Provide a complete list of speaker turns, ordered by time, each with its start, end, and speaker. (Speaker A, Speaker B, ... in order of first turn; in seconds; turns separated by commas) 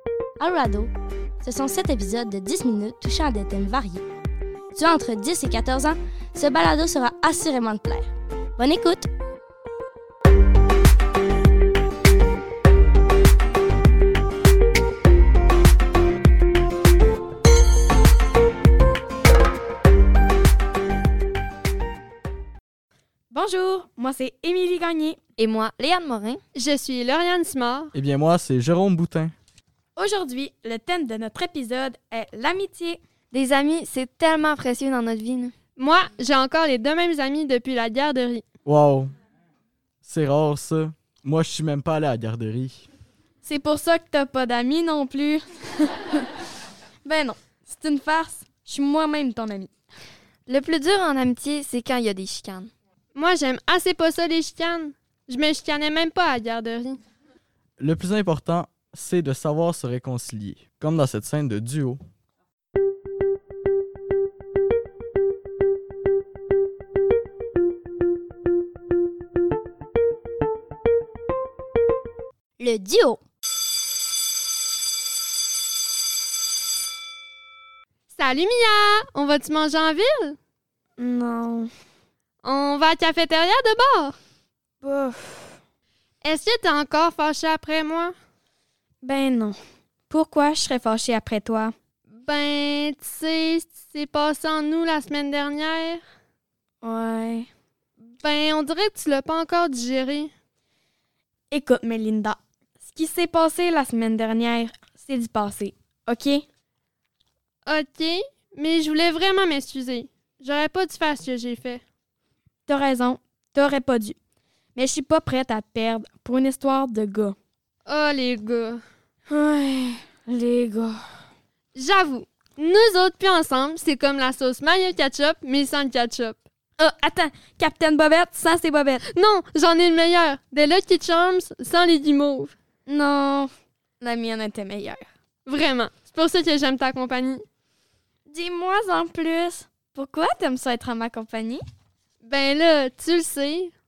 Speaker A: 0.4-4.0, Speaker A: 4.7-9.1, Speaker B: 23.3-25.2, Speaker C: 25.4-26.4, Speaker D: 26.6-27.9, Speaker E: 27.9-29.4, Speaker B: 30.0-33.0, Speaker C: 33.3-35.5, Speaker D: 35.8-38.4, Speaker E: 38.6-39.1, Speaker E: 40.0-42.9, Speaker B: 43.4-46.3, Speaker B: 47.0-49.7, Speaker C: 50.5-52.7, Speaker D: 53.1-57.0, Speaker E: 57.8-62.0, Speaker A: 72.6-73.2, Speaker D: 78.1-80.4, Speaker B: 81.0-81.7, Speaker D: 82.4-84.2, Speaker B: 84.8-85.6, Speaker D: 86.2-88.1, Speaker B: 89.0-89.5, Speaker B: 90.1-91.7, Speaker D: 92.2-96.0, Speaker B: 96.8-97.5, Speaker D: 98.2-100.3, Speaker B: 101.5-106.4, Speaker D: 107.7-111.8, Speaker B: 112.7-114.2, Speaker B: 114.8-117.4, Speaker D: 117.9-118.8, Speaker B: 119.3-121.0, Speaker D: 121.8-126.4, Speaker B: 126.8-129.0, Speaker D: 129.2-132.6, Speaker B: 132.9-133.5, Speaker B: 134.0-135.1, Speaker D: 135.5-137.4, Speaker B: 138.3-141.6, Speaker D: 142.2-143.7